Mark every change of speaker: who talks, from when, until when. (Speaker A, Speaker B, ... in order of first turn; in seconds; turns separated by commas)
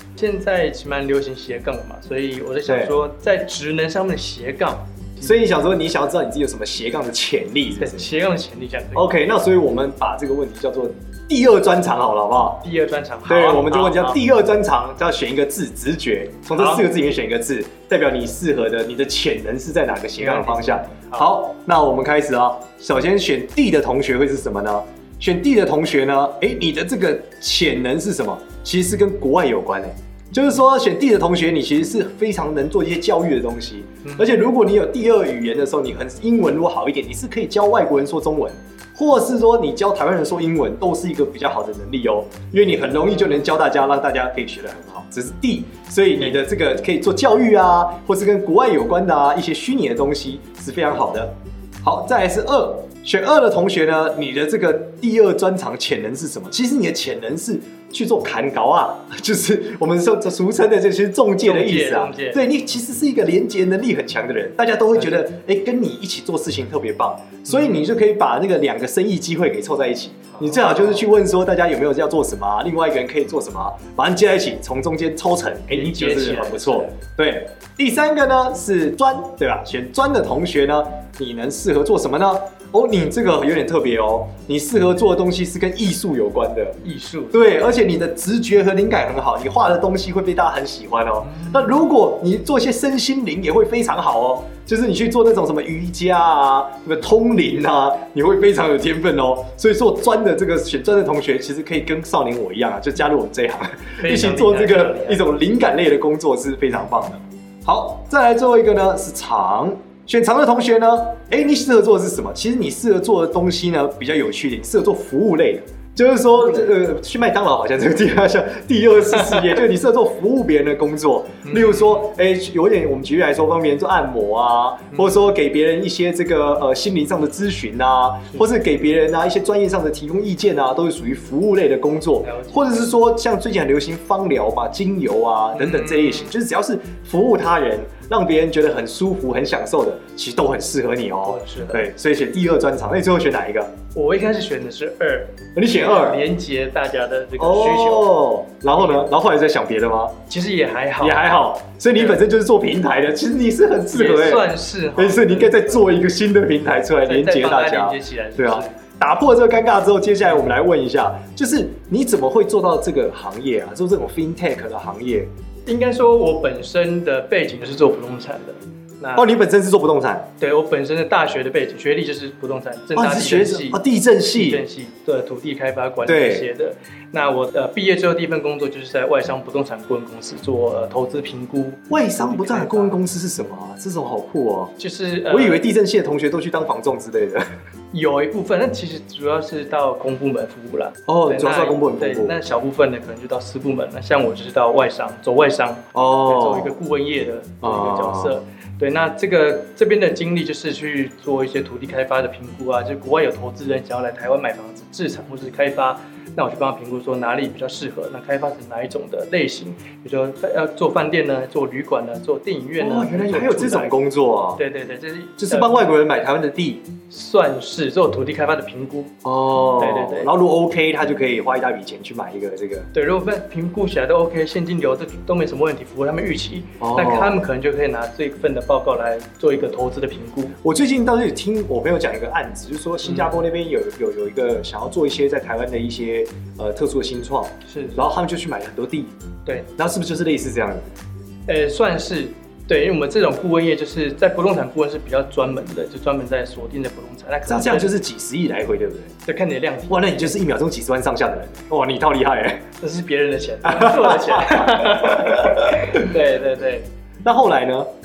Speaker A: 0.1-5.4, Speaker B: 2.7-2.9, Speaker B: 5.2-8.1, Speaker A: 7.8-9.2, Speaker B: 8.9-12.6, Speaker A: 12.6-14.2, Speaker B: 13.3-86.8, Speaker A: 16.5-16.9, Speaker A: 20.2-21.3, Speaker A: 34.0-34.4, Speaker A: 43.1-43.4, Speaker A: 61.4-62.4, Speaker A: 67.5-67.9, Speaker A: 70.3-71.1, Speaker A: 75.7-77.0, Speaker A: 86.8-87.4, Speaker B: 87.3-143.7, Speaker A: 91.3-91.6, Speaker A: 104.0-105.3, Speaker A: 121.4-122.1, Speaker A: 124.9-125.2, Speaker A: 132.2-132.9, Speaker A: 135.5-136.3, Speaker A: 141.2-141.8, Speaker A: 143.9-148.2, Speaker B: 145.5-146.2, Speaker B: 147.4-150.2, Speaker A: 148.7-149.1, Speaker A: 150.3-151.4, Speaker B: 151.0-165.3, Speaker A: 153.9-155.8, Speaker A: 157.1-158.8, Speaker A: 165.7-169.2, Speaker B: 169.2-170.3, Speaker A: 170.4-173.8, Speaker B: 172.9-174.6, Speaker A: 174.3-183.0, Speaker B: 176.1-176.5, Speaker B: 181.9-184.7, Speaker A: 184.8-185.6, Speaker B: 185.3-187.5, Speaker A: 187.9-213.9, Speaker B: 191.1-192.3, Speaker B: 195.9-196.7, Speaker B: 197.6-198.4, Speaker B: 212.8-214.6, Speaker A: 214.6-215.7, Speaker B: 215.4-216.8, Speaker A: 217.1-219.2, Speaker B: 219.2-222.9, Speaker A: 219.8-220.3, Speaker A: 222.9-230.6, Speaker B: 226.8-227.4, Speaker B: 230.6-239.1, Speaker A: 233.0-233.4, Speaker A: 237.7-238.1, Speaker B: 239.8-240.8, Speaker A: 241.5-247.9, Speaker B: 247.5-249.1, Speaker A: 249.2-250.2, Speaker B: 249.9-252.7, Speaker A: 252.8-256.9, Speaker B: 253.6-256.1, Speaker B: 257.2-257.9